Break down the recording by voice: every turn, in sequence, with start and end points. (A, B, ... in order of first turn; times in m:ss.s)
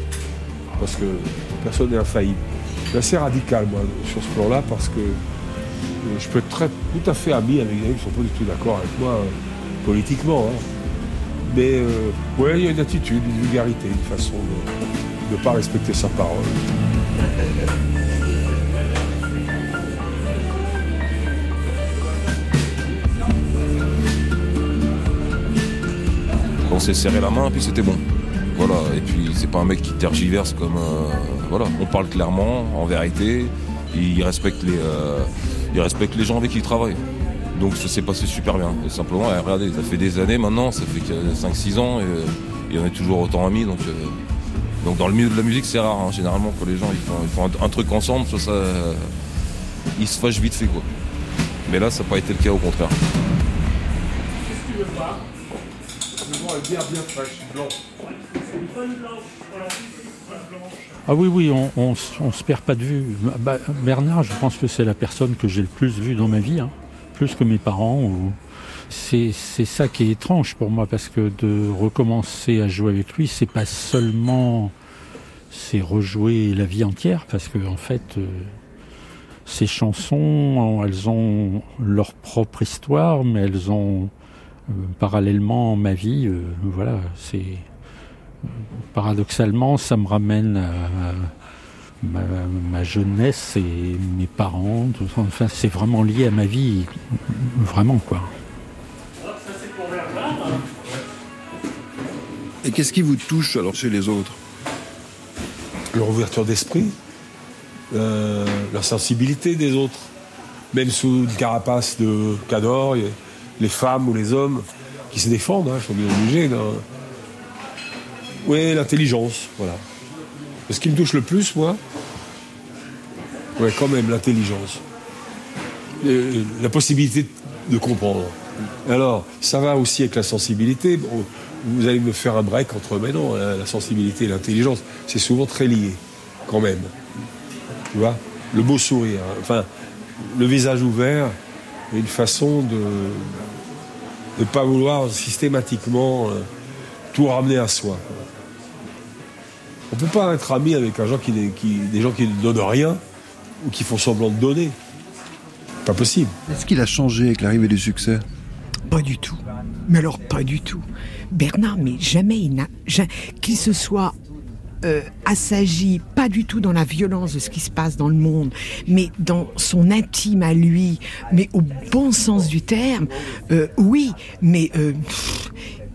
0:00.8-0:05.2 A
0:06.0-0:10.7 A
0:11.4-0:14.7 A
0:15.2-0:16.6 A
0:26.7-0:28.0 B
0:28.6-0:37.0 B
0:37.5-0:44.2 B
0:44.8-0:49.1 B
0:50.0-0:50.9 B
0:51.7-0:52.9 B
0:56.2-0:57.8 A
1:01.1-1:08.4 C
1:08.9-1:14.7 C
1:15.5-1:18.5 C
1:19.5-1:24.1 C
1:24.7-1:27.7 C
1:28.9-1:31.3 C
1:32.0-1:38.3 C
1:42.6-1:44.4 D
1:45.9-1:47.0 A
1:47.9-1:50.1 A
1:50.7-1:56.8 A
1:58.4-1:59.8 A
2:00.7-2:01.8 A
2:03.6-2:04.8 A
2:06.0-2:16.9 A
2:17.9-2:19.7 A
2:20.2-2:21.4 A
2:21.9-2:23.4 A
2:24.4-2:26.5 A
2:27.1-2:28.2 A
2:29.9-2:33.0 A
2:33.6-2:34.8 A
2:35.8-2:36.3 A
2:36.5-2:38.2 D
2:38.9-2:44.2 E
2:44.8-2:55.5 E